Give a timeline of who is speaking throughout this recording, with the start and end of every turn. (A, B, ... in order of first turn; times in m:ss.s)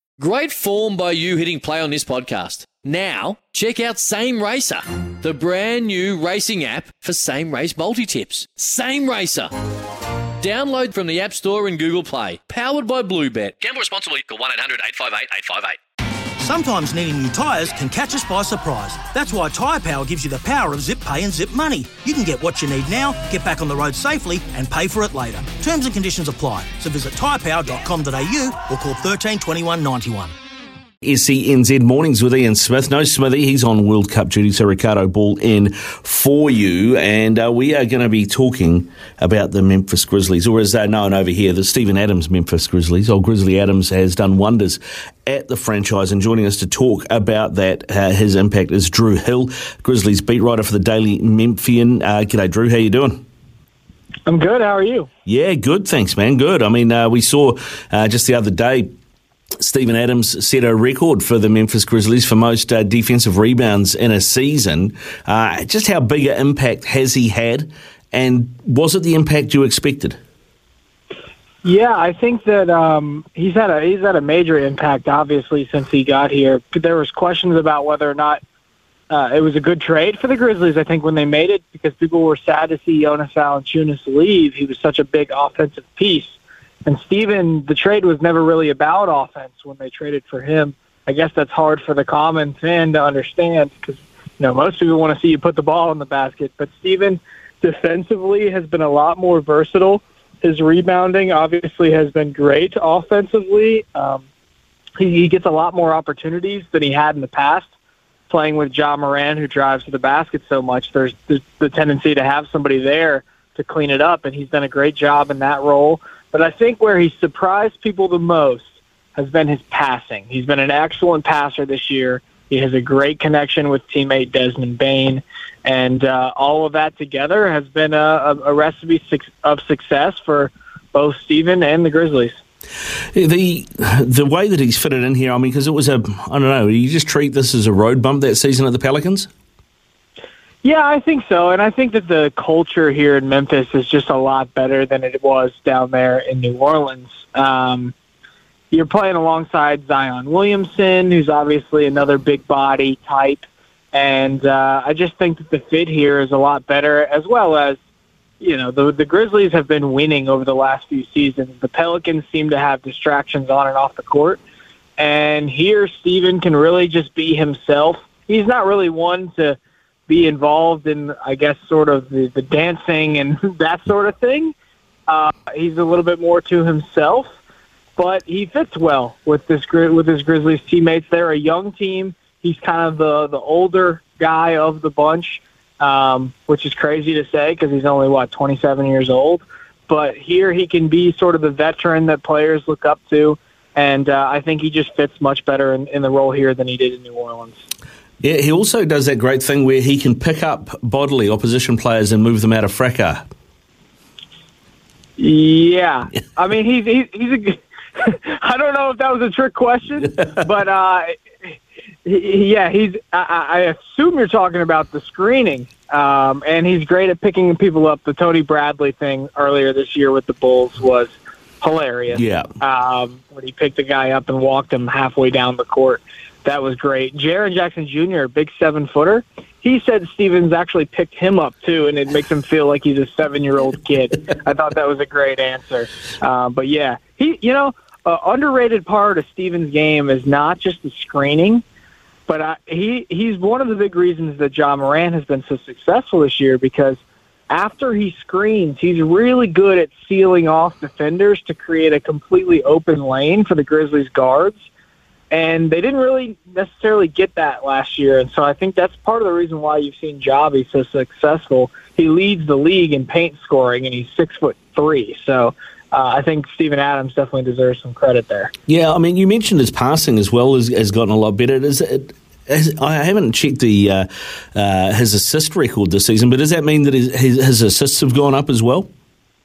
0:00.2-0:09.5 A
0:10.4-0:13.6 A
0:13.6-0:15.8 B
0:16.4-0:30.3 C
0:31.0-0:53.2 D
0:54.3-0:55.1 E
0:55.2-0:58.9 D
0:59.6-1:10.2 D
1:11.6-1:18.4 E
1:19.1-1:44.2 E
1:45.0-1:47.7 E
1:48.3-2:12.4 E
2:13.2-2:19.3 D
2:20.6-2:27.9 E
2:28.7-2:37.8 E
2:38.4-2:44.4 E
2:45.0-2:54.5 E
2:55.1-2:57.4 E
2:58.0-3:17.6 E
3:18.2-3:23.2 D
3:25.2-4:01.6 E
3:42.1-3:42.5 D
4:02.3-4:14.7 E
4:15.3-4:28.5 E
4:28.7-4:38.9 D